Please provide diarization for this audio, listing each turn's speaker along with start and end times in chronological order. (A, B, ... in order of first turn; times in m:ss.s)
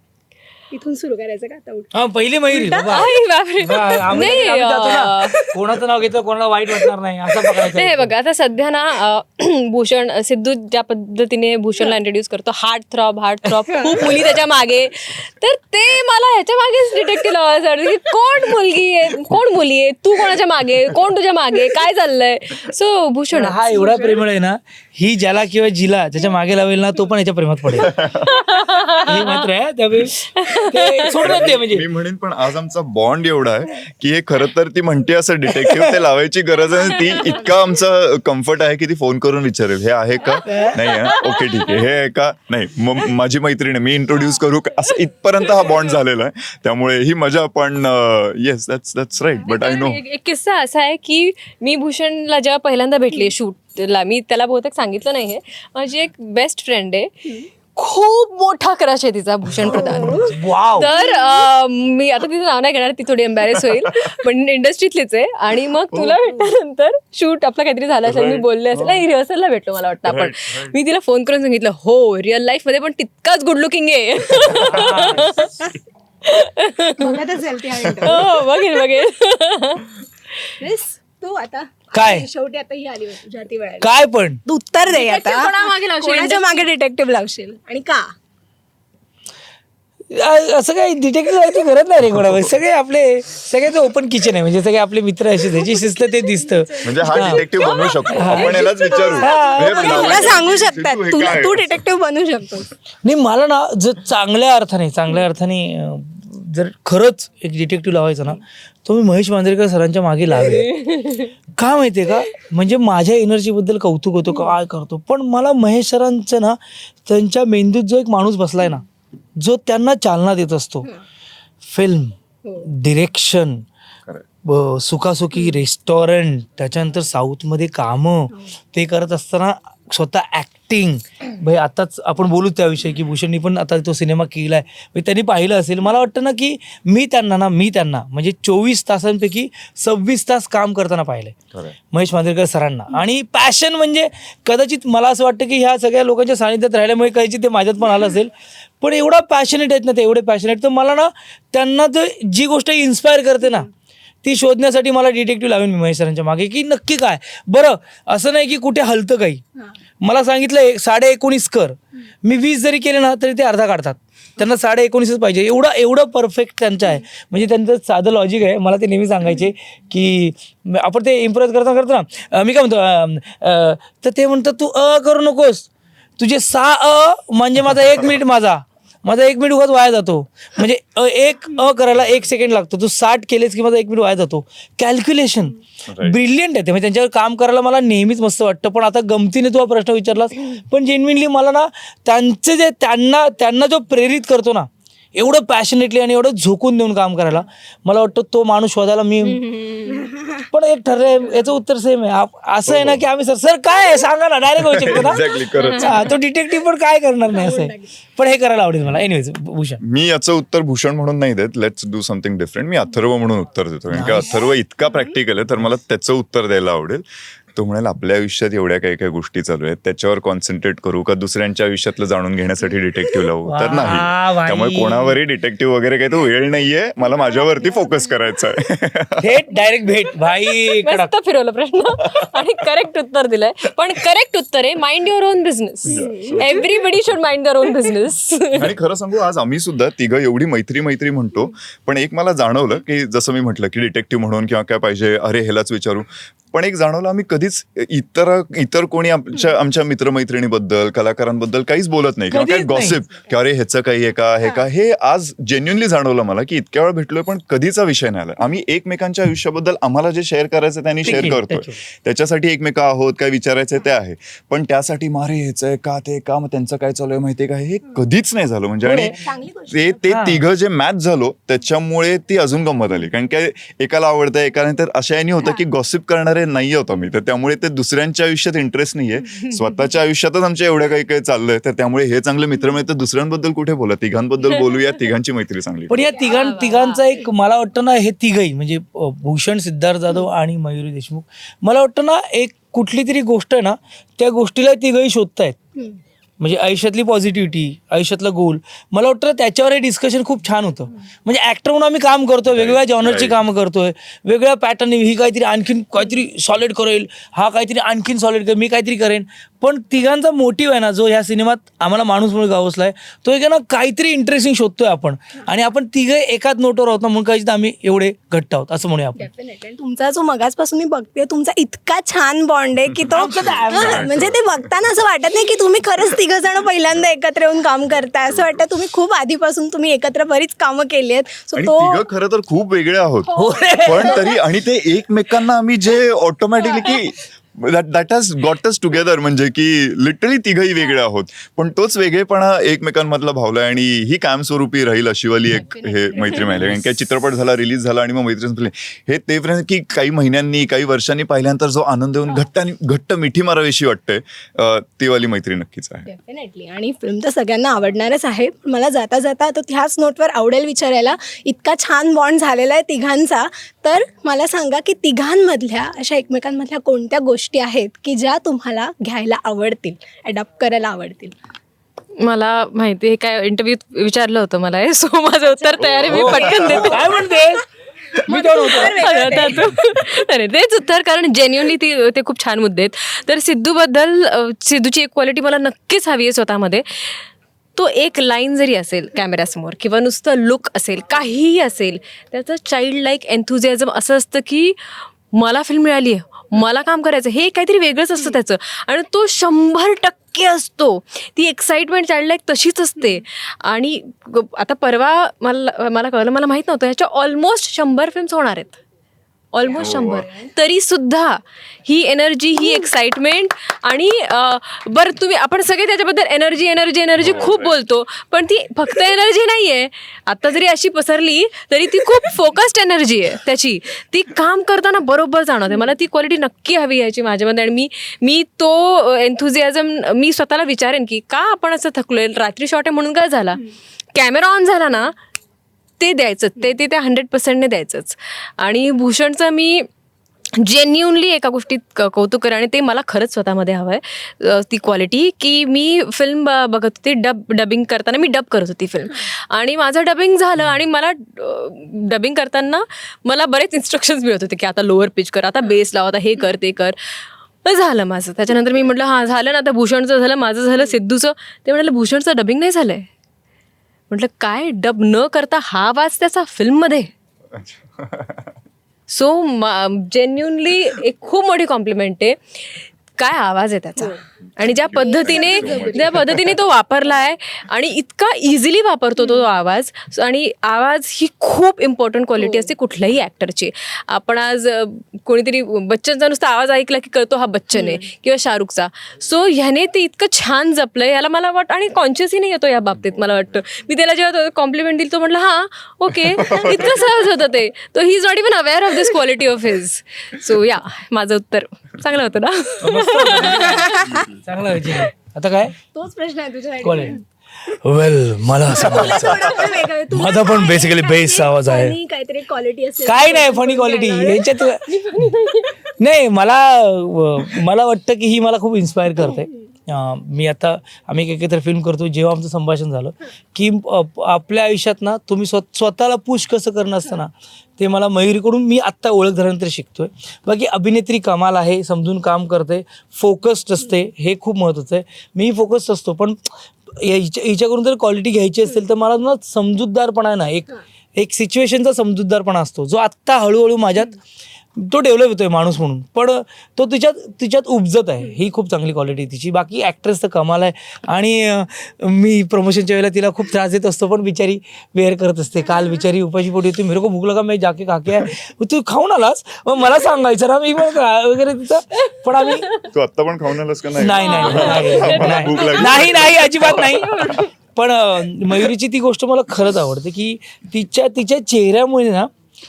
0:00.7-0:01.9 A
0:01.9-0:08.1 B
0:02.5-0:03.1 A
0:02.9-0:05.4 C
0:04.0-0:04.3 A
0:07.6-0:23.7 C
0:23.3-0:28.0 B
0:23.8-0:24.1 A
0:27.8-0:28.2 D
0:28.1-0:29.4 C
0:28.6-0:31.8 B
0:30.2-0:31.3 C
0:31.2-0:50.0 D
0:35.5-0:36.0 B
0:40.4-0:40.9 B
0:41.0-0:41.6 C
0:49.4-0:57.1 C
0:57.8-1:15.6 C
0:59.6-0:59.9 D
0:59.8-1:01.4 A
1:00.1-1:00.9 B
1:03.6-1:04.2 D
1:05.9-1:06.5 D
1:08.0-1:09.0 D
1:10.1-1:10.7 D
1:14.6-1:15.5 B
1:16.2-1:17.2 C
1:17.0-1:18.4 A
1:17.9-1:18.2 D
1:18.0-1:19.9 C
1:20.6-1:23.9 A
1:21.9-1:22.3 B
1:23.8-1:24.4 B
1:24.4-1:28.1 A
1:24.8-1:26.6 C
1:30.1-1:37.5 B
1:36.3-1:42.7 A
1:36.8-1:41.8 D
1:38.1-1:40.4 B
1:38.3-1:39.0 C
1:43.0-1:50.8 B
1:50.6-1:51.3 C
1:51.6-1:58.8 B
1:59.4-2:00.9 B
2:01.6-2:03.6 B
2:04.4-2:21.4 B
2:21.9-2:33.7 B
2:34.2-2:39.4 B
2:40.0-3:19.9 B
3:05.9-3:06.2 D
3:19.7-3:20.2 A
3:20.5-3:29.8 B
3:22.7-3:23.0 D
3:24.6-3:26.1 D
3:27.3-3:27.7 A
3:29.8-3:37.0 D
3:33.9-3:34.4 B
3:37.5-3:49.2 D
3:43.4-3:45.2 B
3:49.2-3:51.1 B
3:50.7-3:58.6 C
3:55.9-3:56.6 D
3:56.2-3:56.6 A
3:58.6-4:29.2 D
4:12.3-4:13.0 B
4:21.0-4:21.8 B
4:28.8-4:29.2 B
4:29.0-4:30.1 A
4:29.7-4:46.1 D
4:30.0-4:30.4 B
4:45.9-4:55.6 B
4:46.2-4:47.0 C
4:56.4-5:19.3 B
5:02.5-5:03.4 D
5:19.2-5:32.0 A
5:23.1-5:24.3 B
5:23.4-5:24.8 D
5:28.2-5:28.6 D
5:31.5-5:56.1 D
5:33.3-5:34.3 A
5:33.3-5:34.3 B
5:36.6-5:36.9 A
5:45.6-5:46.5 A
5:46.2-5:46.9 B
5:56.1-6:11.3 A
6:12.2-6:17.1 C
6:15.8-6:17.0 D
6:16.1-6:17.7 B
6:18.3-6:19.6 A
6:18.3-6:19.0 B
6:18.8-6:27.2 C
6:27.7-6:34.8 C
6:35.3-6:48.8 C
6:49.5-7:13.6 C
6:49.6-6:50.0 A
6:49.8-6:50.2 D
6:57.2-6:57.8 D
7:14.1-7:15.1 C
7:16.0-7:19.9 C
7:20.6-7:37.0 C
7:37.6-7:43.1 C
7:44.1-7:47.1 C
7:47.5-7:48.5 D
7:49.1-8:23.9 C
7:54.6-7:56.6 D
7:54.9-7:56.2 A
8:02.4-8:02.7 A
8:07.7-8:08.0 A
8:16.3-8:17.0 D
8:22.8-8:25.8 B
8:23.5-8:24.2 A
8:24.1-8:24.4 D
8:25.9-8:27.2 A
8:26.8-8:32.0 B
8:28.7-8:34.7 A
8:33.0-8:35.3 B
8:35.1-8:35.7 C
8:36.0-9:04.2 B
9:04.8-9:22.8 B
9:22.5-9:22.8 C
9:22.8-9:27.0 D
9:24.0-9:32.3 B
9:24.2-9:25.9 C
9:24.2-9:24.8 A
9:26.9-9:27.5 C